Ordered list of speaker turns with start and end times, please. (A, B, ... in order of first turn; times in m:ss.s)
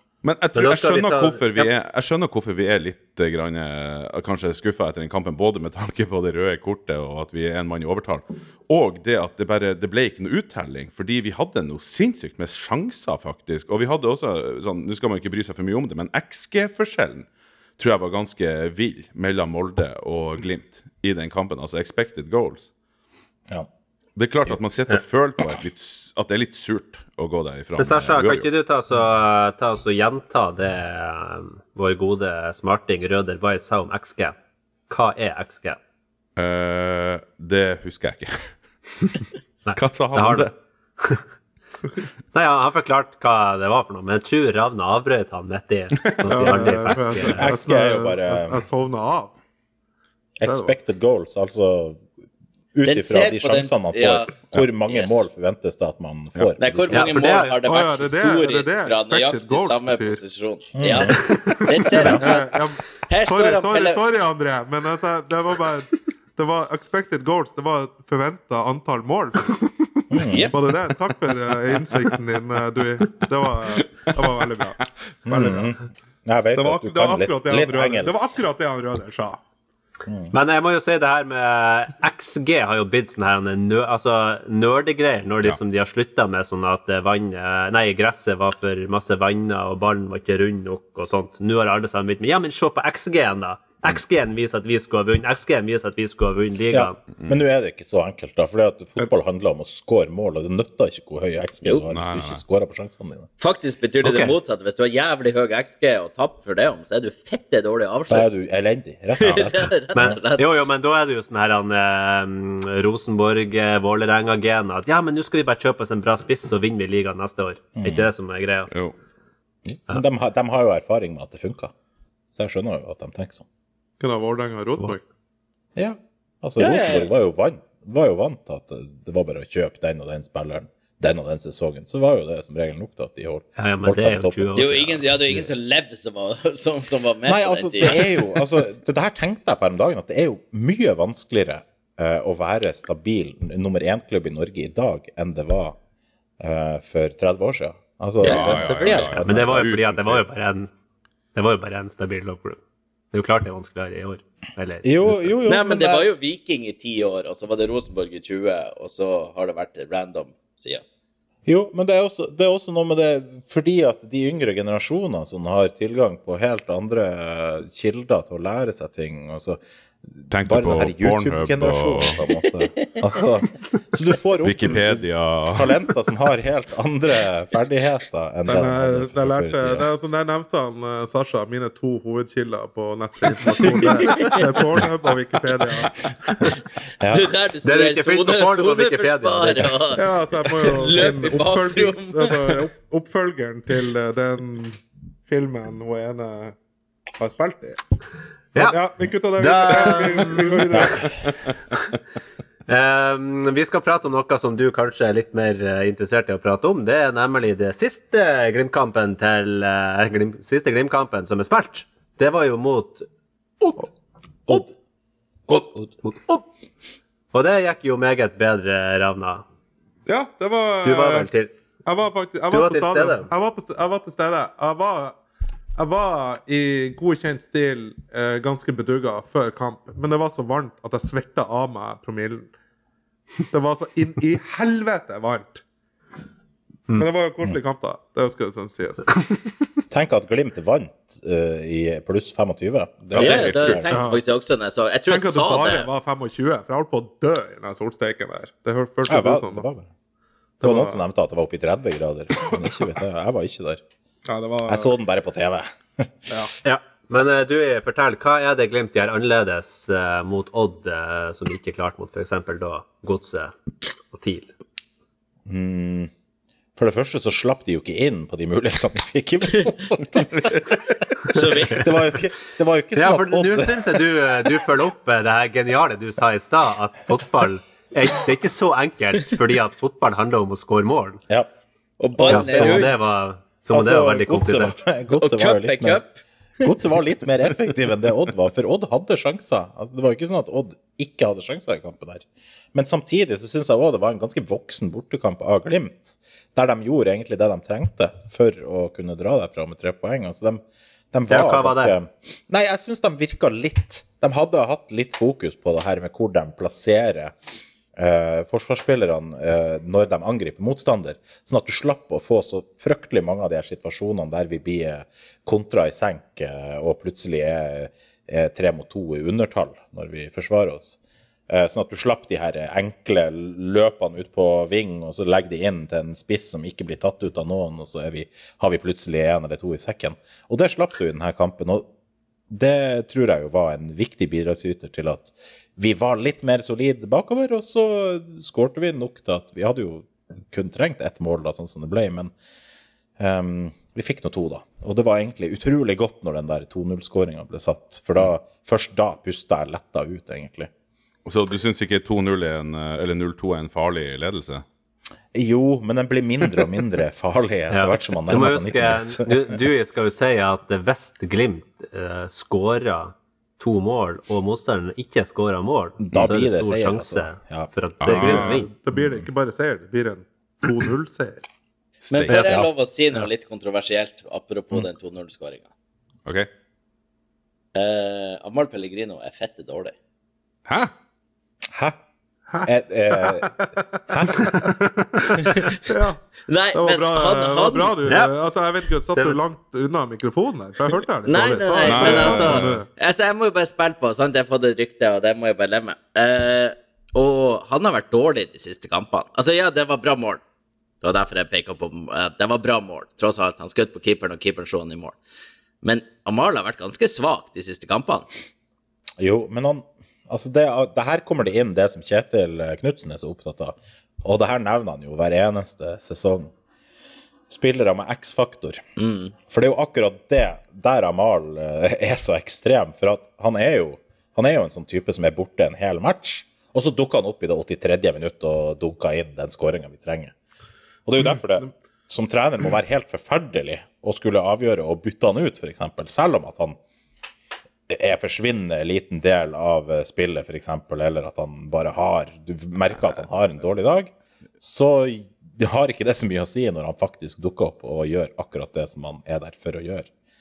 0:00.2-0:17.2 A
0:00.5-0:01.7 B
0:17.8-0:22.7 A
0:24.2-0:28.5 A
0:27.8-0:34.4 B
0:34.9-0:35.8 B
0:36.4-0:38.5 A
0:39.1-0:40.5 A
0:39.6-0:41.2 B
0:42.3-0:47.5 B
0:46.3-0:49.3 C
0:47.4-0:48.6 D
0:50.4-0:52.0 D
0:50.4-0:50.7 C
0:52.7-0:57.3 D
0:52.8-0:55.2 E
0:56.6-1:04.0 E
0:56.9-0:57.6 B
0:57.6-1:00.2 C
1:00.8-1:01.2 D
1:01.1-1:02.2 B
1:01.3-1:09.4 C
1:02.0-1:02.2 D
1:10.1-1:10.5 D
1:10.2-1:10.6 E
1:10.5-1:15.7 C
1:15.3-1:18.4 D
1:16.5-1:19.4 C
1:20.1-1:20.3 D
1:20.3-1:37.0 B
1:36.7-1:43.3 D
1:41.9-1:42.4 A
1:43.4-1:48.3 E
1:44.0-1:44.3 B
1:48.1-1:49.8 D
1:49.2-1:50.4 E
1:49.9-1:58.7 B
1:57.8-1:58.1 D
1:59.6-2:01.7 D
2:02.3-2:03.4 D
2:04.0-2:05.0 C
2:05.8-2:14.9 D
2:06.6-2:07.1 E
2:13.6-2:15.4 B
2:14.5-2:18.2 E
2:17.2-2:25.8 D
2:26.4-2:29.7 D
2:28.2-2:30.2 A
2:28.2-2:30.7 B
2:31.3-2:32.6 B
2:33.1-2:35.4 B
2:34.8-2:36.1 D
2:35.4-2:40.8 E
2:41.4-2:49.6 D
2:50.1-2:55.0 D
2:50.3-2:52.2 A
2:54.4-2:55.7 A
2:55.5-2:59.9 D
2:58.5-3:06.1 C
3:03.7-3:04.7 E
3:07.0-3:07.3 D
3:07.1-3:12.6 E
3:07.6-3:09.7 B
3:09.9-3:16.6 C
3:17.2-3:17.8 C
3:18.5-3:21.1 C
3:19.4-3:21.0 B
3:22.7-3:33.1 B
3:33.6-3:33.9 B
3:35.5-3:35.9 D
3:35.5-3:36.4 B
3:37.3-3:39.4 B
3:40.0-3:41.3 C
3:40.8-3:41.5 B
3:41.8-3:45.2 C
3:42.5-3:43.3 B
3:45.8-3:52.5 C
3:53.5-3:55.6 C
3:56.9-3:59.3 C
3:59.9-4:03.9 D
4:03.1-4:03.8 A
4:03.2-4:05.9 E
4:03.9-4:04.2 C
4:05.1-4:09.6 C
4:09.1-4:09.9 D
4:10.6-4:11.0 C
4:10.6-4:13.8 D
4:12.4-4:12.8 C
4:14.2-4:14.9 C
4:14.6-4:16.1 D
4:16.6-4:23.5 B
4:24.1-4:24.5 B
4:25.4-4:26.1 D
4:26.8-4:34.0 D
4:31.3-4:32.0 E
4:31.3-4:31.8 B
4:32.9-4:41.2 B
4:42.0-4:42.9 E
4:42.2-4:42.9 D
4:42.3-4:44.8 B
4:43.7-4:46.0 D
4:45.1-4:46.7 E
4:46.6-5:07.3 D
5:01.3-5:02.0 B
5:08.0-5:31.8 D
5:32.5-5:42.3 D
5:43.2-5:50.7 D
5:51.2-5:54.6 A
5:55.3-5:59.6 D
5:57.7-6:08.7 B
6:06.0-6:07.7 D
6:08.0-6:08.5 A
6:08.1-6:11.4 C
6:08.9-6:09.2 D
6:12.1-6:12.6 A
6:12.1-6:15.6 E
6:12.3-6:12.7 D
6:17.7-6:19.9 E
6:20.6-6:20.9 A
6:22.5-6:26.2 C
6:22.6-6:24.8 D
6:26.5-6:28.0 E
6:26.7-6:32.9 C
6:28.0-6:28.3 B
6:29.1-6:29.4 B
6:31.3-6:40.4 E
6:31.8-6:32.8 A
6:41.0-6:45.2 E
6:45.8-6:48.3 E
6:49.2-6:56.5 D
6:57.5-6:58.8 D
6:59.0-6:59.3 E
6:59.5-7:10.3 D
7:11.0-7:16.8 D
7:17.9-7:30.1 D